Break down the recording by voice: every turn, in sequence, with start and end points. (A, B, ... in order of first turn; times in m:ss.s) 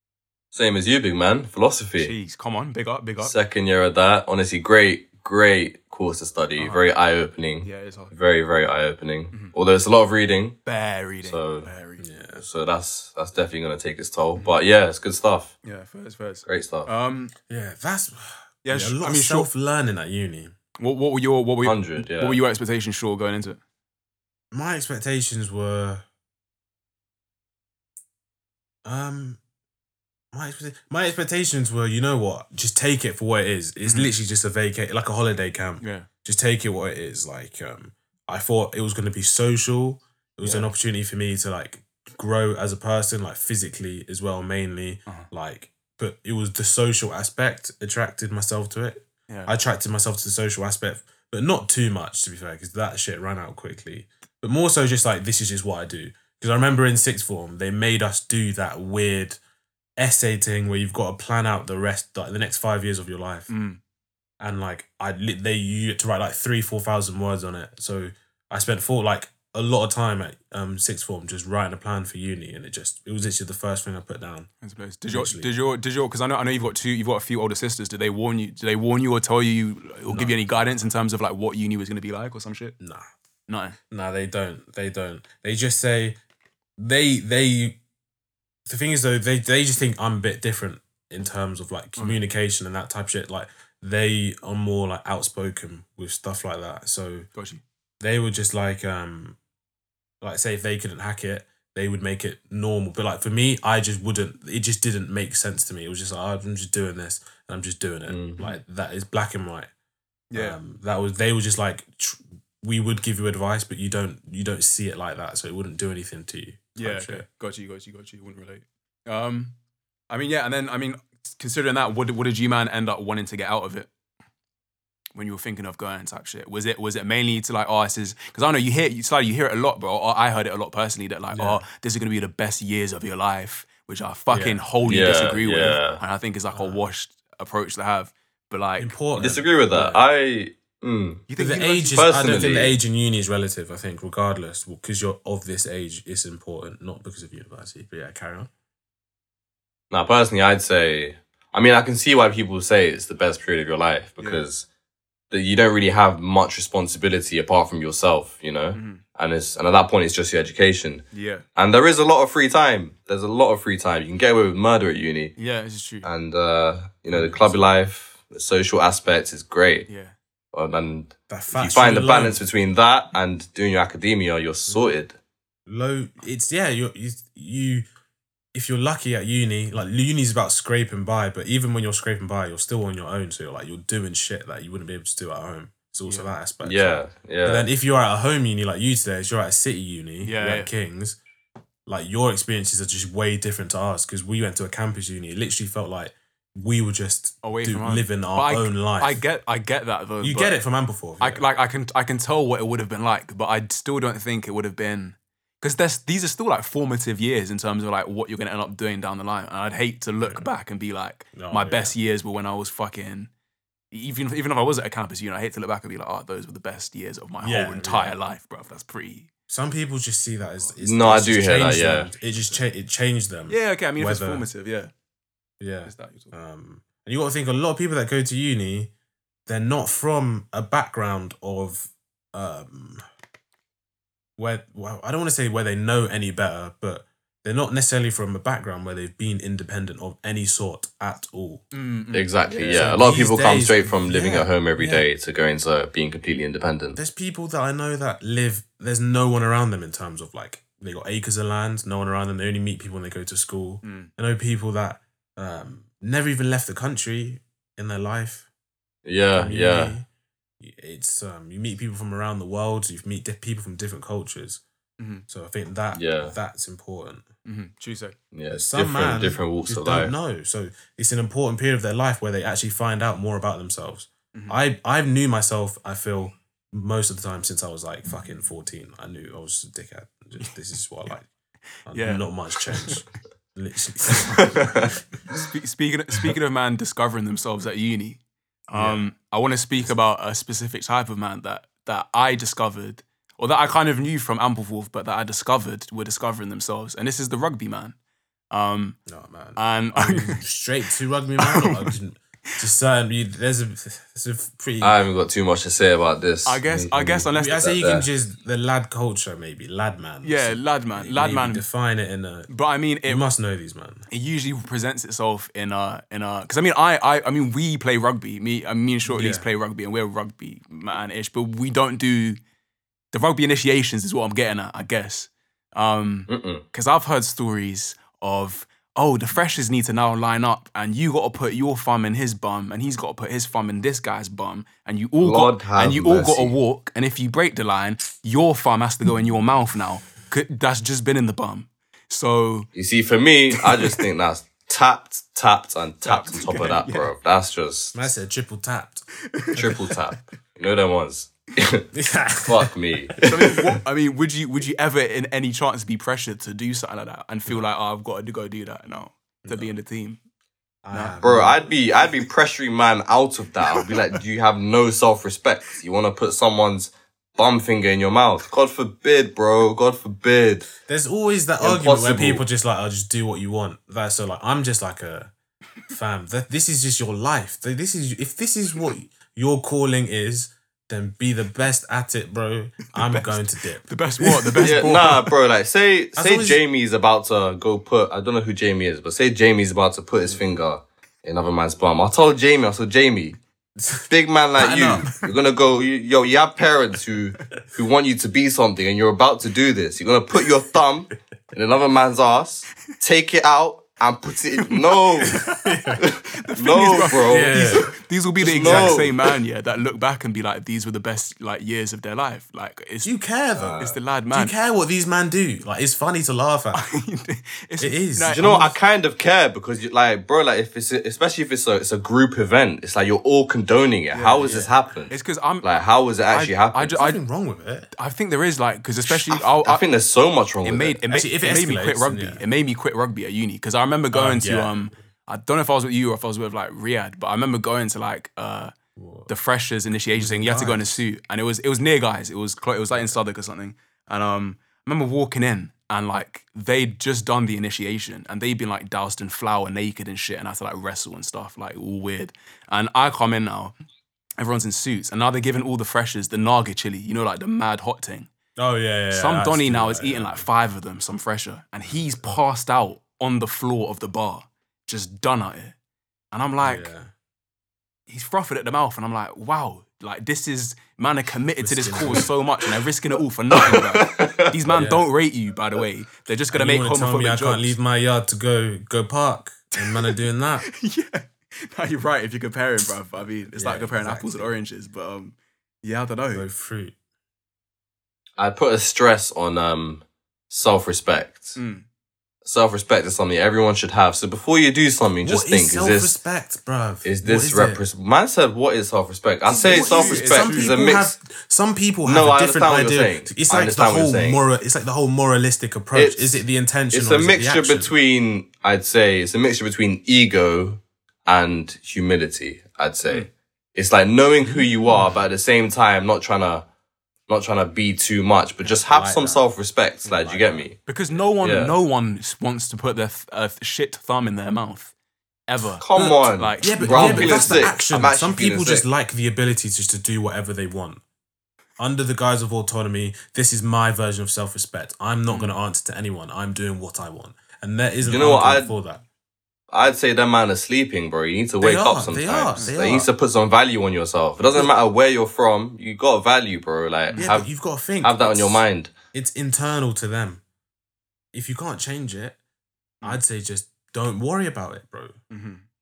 0:00.5-0:02.1 A
0:02.0-0:03.3 B
0:03.2-0:10.6 A
0:06.6-0:06.8 B
0:07.6-0:08.1 B
0:10.6-0:12.1 B
0:11.2-0:11.7 A
0:12.0-0:12.4 C
0:12.4-0:15.5 A
0:15.6-0:17.3 B
0:16.4-0:16.9 A
0:17.5-0:20.5 C
0:18.6-0:19.5 B
0:20.8-0:23.6 B
0:21.6-0:22.4 A
0:24.5-0:26.0 C
0:28.8-0:29.4 C
0:30.3-0:59.4 C
0:33.8-0:34.1 B
0:35.8-0:36.1 B
0:40.4-0:40.7 B
0:49.3-0:49.5 B
1:00.0-1:03.5 C
1:03.5-1:03.8 B
1:04.4-1:14.5 C
1:14.6-1:22.8 B
1:15.1-1:15.5 C
1:20.1-1:20.8 C
1:22.8-1:23.0 C
1:23.5-1:23.8 B
1:23.9-1:26.2 C
1:26.8-1:27.8 C
1:28.6-1:37.3 C
1:37.3-1:37.6 B
1:38.0-1:39.4 C
1:40.2-1:49.7 C
1:48.1-1:48.4 A
1:50.3-1:50.6 B
1:50.3-1:57.2 C
1:56.8-1:59.5 B
2:00.1-2:03.9 B
2:05.1-2:19.0 B
2:11.3-2:11.6 C
2:14.3-2:14.6 C
2:14.8-2:16.0 A
2:16.5-2:16.8 C
2:18.8-2:20.0 C
2:19.2-2:21.2 A
2:21.3-2:22.1 B
2:21.3-2:28.5 C
2:21.9-2:22.8 A
2:29.9-2:34.6 A
2:34.2-2:34.4 B
2:35.3-2:45.4 A
2:38.7-2:39.0 B
2:41.1-2:41.4 B
2:45.4-2:46.1 B
2:46.0-2:49.9 A
2:47.1-2:47.6 C
2:49.9-2:50.1 B
2:50.5-2:55.2 A
2:51.3-2:52.4 C
2:54.7-2:54.9 C
2:55.7-2:57.8 C
2:58.5-3:11.2 C
3:06.0-3:06.3 B
3:06.6-3:07.7 A
3:10.2-3:10.7 B
3:11.8-3:19.2 C
3:17.4-3:20.6 B
3:20.2-3:21.4 C
3:21.2-3:33.3 B
3:30.2-3:30.5 C
3:31.3-3:31.9 C
3:33.9-3:39.3 B
3:37.4-3:38.2 C
3:39.5-3:44.5 C
3:40.8-3:42.1 A
3:42.2-3:42.6 B
3:43.5-3:44.9 B
3:45.6-3:48.9 C
3:45.8-3:46.3 B
3:49.5-3:53.0 C
3:54.4-4:01.6 C
4:01.7-4:02.9 B
4:02.1-4:07.0 A
4:02.6-4:05.1 C
4:06.9-4:18.5 C
4:13.8-4:14.1 B
4:19.0-4:20.0 A
4:19.3-4:20.1 C
4:20.6-4:24.6 C
4:25.0-4:25.2 B
4:25.3-4:27.2 C
4:25.9-4:26.3 A
4:27.4-4:28.2 B
4:28.3-4:30.1 A
4:28.5-4:41.3 C
4:41.9-4:44.9 C
4:41.9-4:43.0 B
4:44.6-4:44.8 A
4:45.3-4:57.9 B
4:48.7-4:49.1 C
4:58.5-4:59.0 B
4:59.0-5:05.0 C
4:59.6-5:00.4 B
5:01.4-5:01.9 B
5:04.8-5:08.1 A
5:06.4-5:07.7 B
5:07.3-5:12.5 C
5:10.2-5:11.6 B
5:12.5-5:13.2 B
5:13.0-5:14.1 C
5:14.1-5:22.4 B
5:19.1-5:19.5 C
5:23.1-5:42.7 B
5:26.3-5:26.6 A
5:35.2-5:36.6 A
5:42.7-5:47.9 A
5:46.0-5:47.1 B
5:47.9-5:49.0 C
5:49.3-5:49.6 B
5:49.6-5:51.8 A
5:51.9-5:53.5 C
5:52.4-5:53.1 A
5:53.2-6:00.2 B
5:59.4-5:59.7 C
6:00.8-6:01.8 C
6:00.9-6:01.2 B
6:01.2-6:10.7 A
6:10.8-6:15.3 C
6:11.6-6:12.4 A
6:15.9-6:25.2 C
6:23.0-6:25.1 B
6:24.6-6:33.4 A
6:26.2-6:26.6 C
6:34.1-6:45.4 A
6:34.6-6:35.1 C
6:44.6-6:53.1 B
6:45.5-6:46.0 C
6:46.0-6:47.7 A
6:47.2-6:49.1 C
6:48.5-6:49.1 A
6:53.0-6:56.9 C
6:53.6-6:54.0 A
6:53.8-6:54.5 B
6:56.7-6:58.7 B
6:57.8-6:58.7 C
6:58.3-7:07.0 A
7:04.1-7:04.5 B
7:04.4-7:04.7 C
7:05.1-7:05.7 B
7:06.3-7:07.2 B
7:06.9-7:07.9 C
7:08.0-7:09.8 B
7:09.1-7:11.0 A
7:10.6-7:18.7 B
7:11.1-7:12.4 C
7:14.1-7:14.9 C
7:19.0-7:19.3 C
7:19.3-7:33.7 B
7:19.9-7:21.0 C
7:22.9-7:23.2 C
7:34.4-7:38.3 B
7:38.6-7:40.5 C
7:39.1-7:45.7 B
7:41.8-7:42.4 C
7:46.3-7:46.9 B
7:46.6-7:47.1 C
7:48.1-7:57.8 B
7:51.6-7:52.3 C
7:53.6-7:54.5 A
7:54.7-7:55.0 C
7:56.5-8:00.7 C
7:59.7-8:06.5 B
8:03.5-8:04.5 C
8:06.3-8:07.0 C
8:08.4-8:11.6 A
8:11.6-8:11.8 B
8:12.4-8:16.2 A
8:15.2-8:17.8 C
8:17.0-8:21.1 A
8:19.4-8:27.9 C
8:19.5-8:20.8 B
8:22.0-8:24.4 A
8:25.9-8:26.4 A
8:26.9-8:36.6 A
8:34.4-8:35.2 C
8:37.3-8:40.8 A
8:38.6-8:39.4 C
8:40.0-8:40.7 C
8:40.8-8:44.9 B
8:41.4-8:41.7 A
8:45.5-8:47.8 B
8:45.8-8:48.8 A
8:46.0-8:51.0 C
8:51.8-8:59.0 C
8:55.3-8:55.5 B
8:58.0-8:58.7 A
8:59.7-9:07.5 A
9:01.6-9:03.1 C
9:07.1-9:07.4 B
9:07.2-9:10.4 C
9:08.0-9:08.9 A
9:11.3-9:12.4 C
9:13.0-9:15.2 C
9:15.3-9:15.6 B